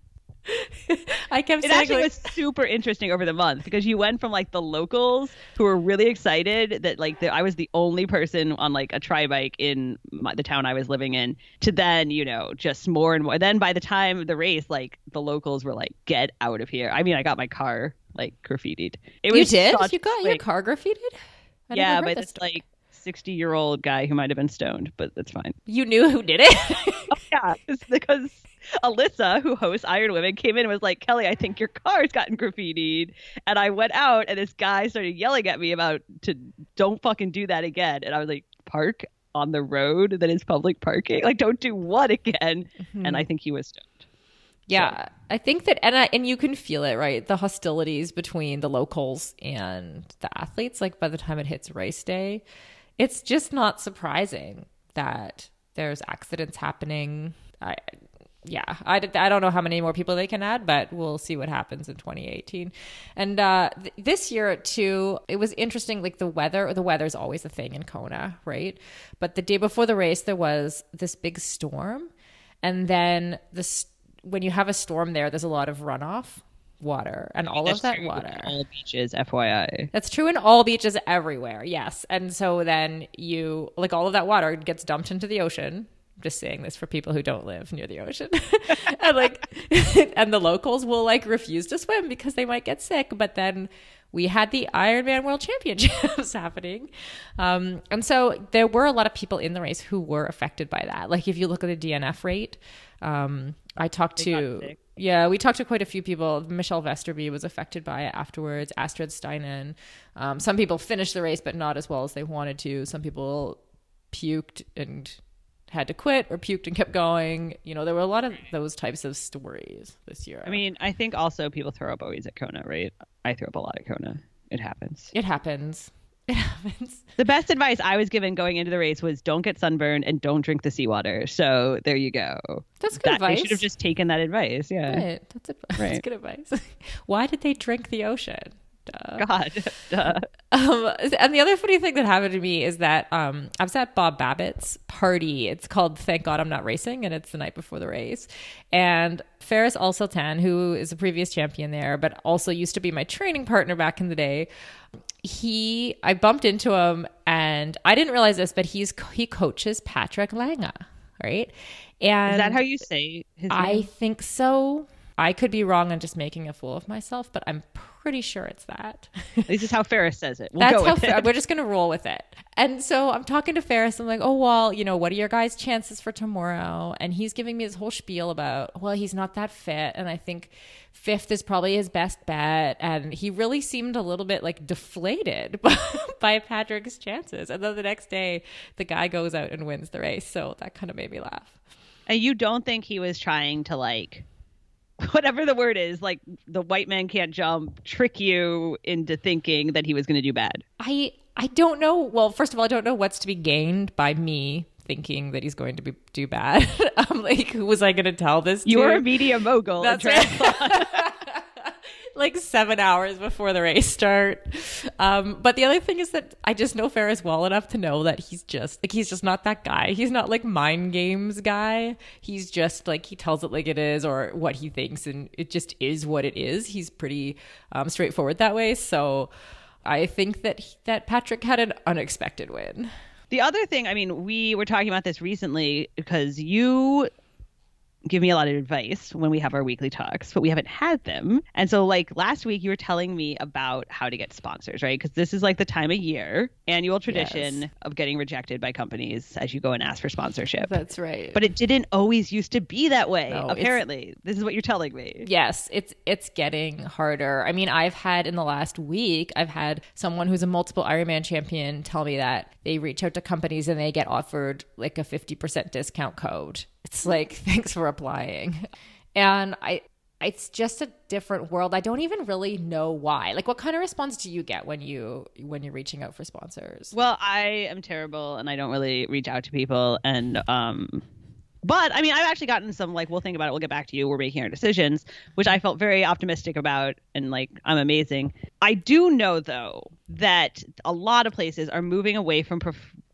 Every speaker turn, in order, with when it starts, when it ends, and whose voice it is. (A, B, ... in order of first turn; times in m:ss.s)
0:00.5-0:02.3 A
0:01.6-0:20.4 B
0:19.3-0:21.2 A
0:21.7-0:22.6 A
0:21.7-0:25.6 B
0:25.7-0:27.2 A
0:27.1-0:44.0 B
0:42.9-0:43.2 A
0:44.7-0:52.4 A
0:53.0-1:12.1 A
1:12.6-1:18.5 A
1:17.6-1:19.9 B
1:19.9-1:53.6 A
1:44.2-1:44.8 B
1:54.1-1:55.2 A
1:55.7-2:00.6 A
2:00.4-2:05.1 B
2:05.1-2:07.1 A
2:07.2-2:15.0 B
2:12.8-2:13.6 A
2:14.9-2:19.2 A
2:15.8-2:16.0 B
2:19.2-2:20.2 B
2:20.5-2:34.5 A
2:35.2-2:42.6 A
2:42.3-2:43.9 B
2:43.5-2:49.5 A
2:49.5-2:51.3 B
2:50.6-3:11.5 A
3:12.1-3:14.2 B
3:15.0-3:20.6 B
3:20.8-3:29.0 A
3:28.6-3:31.1 B
3:29.8-3:49.3 A
3:49.8-3:52.9 A
3:53.3-3:57.1 B
3:58.1-4:10.8 B
4:07.1-4:07.7 A
4:10.6-4:11.4 A
4:11.3-4:15.3 B
4:13.3-4:13.8 A
4:15.2-4:36.9 A
4:36.9-4:41.0 B
4:41.6-4:52.9 B